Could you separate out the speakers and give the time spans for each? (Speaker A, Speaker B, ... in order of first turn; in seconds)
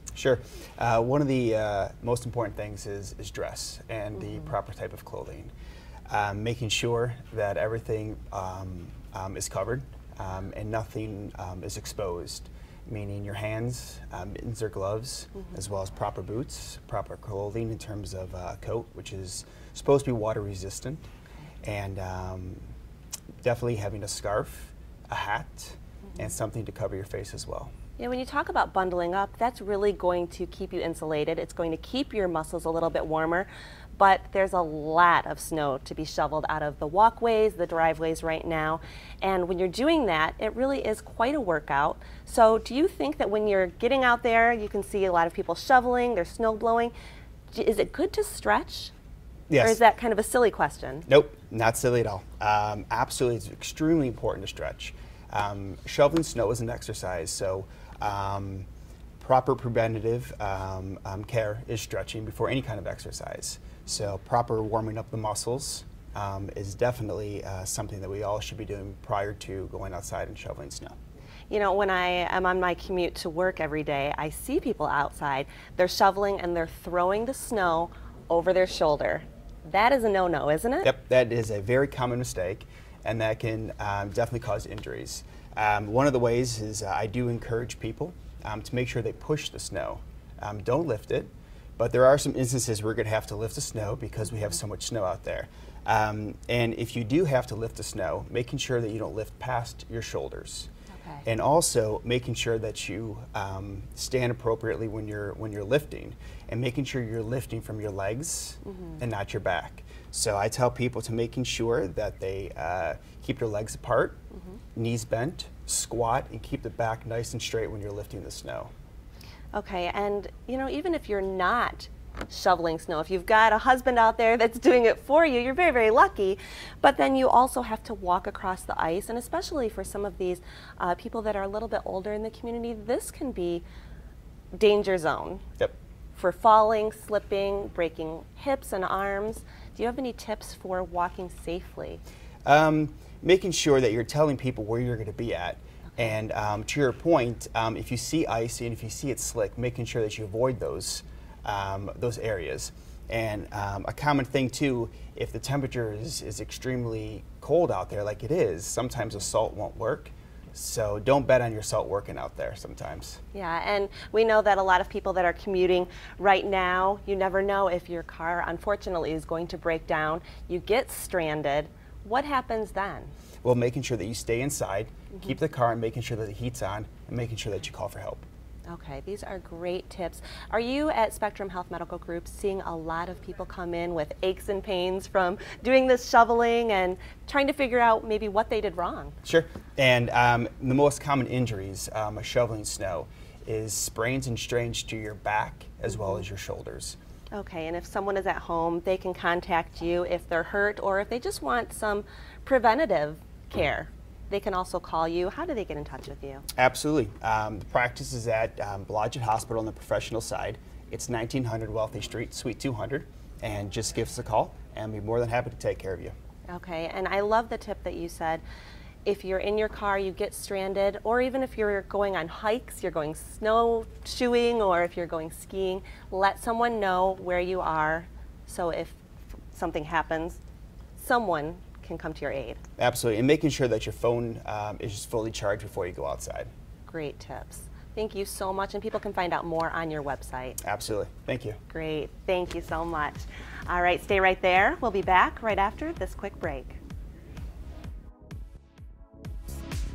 Speaker A: 0.1-5.5, 6.1-21.0, 21.6-22.6, 23.4-27.7, 49.5-49.8, 51.1-58.7, 59.2-71.0, 80.8-100.7, 101.3-114.2, 114.8-118.7, 142.4-163.2, 173.4-178.3, 189.2-197.0, 206.6-216.1, 232.8-236.5, 240.6-241.6
Speaker B: 28.0-46.9, 47.5-48.9, 49.6-51.1, 71.5-80.9, 100.9-101.2, 108.6-109.0, 119.5-133.7, 134.6-135.4, 136.2-142.0, 163.3-173.1, 178.7-189.2, 195.9-196.2, 197.3-206.4, 216.5-218.4, 219.1-229.0, 229.5-230.4, 231.0-232.6, 236.9-240.6, 241.7-246.8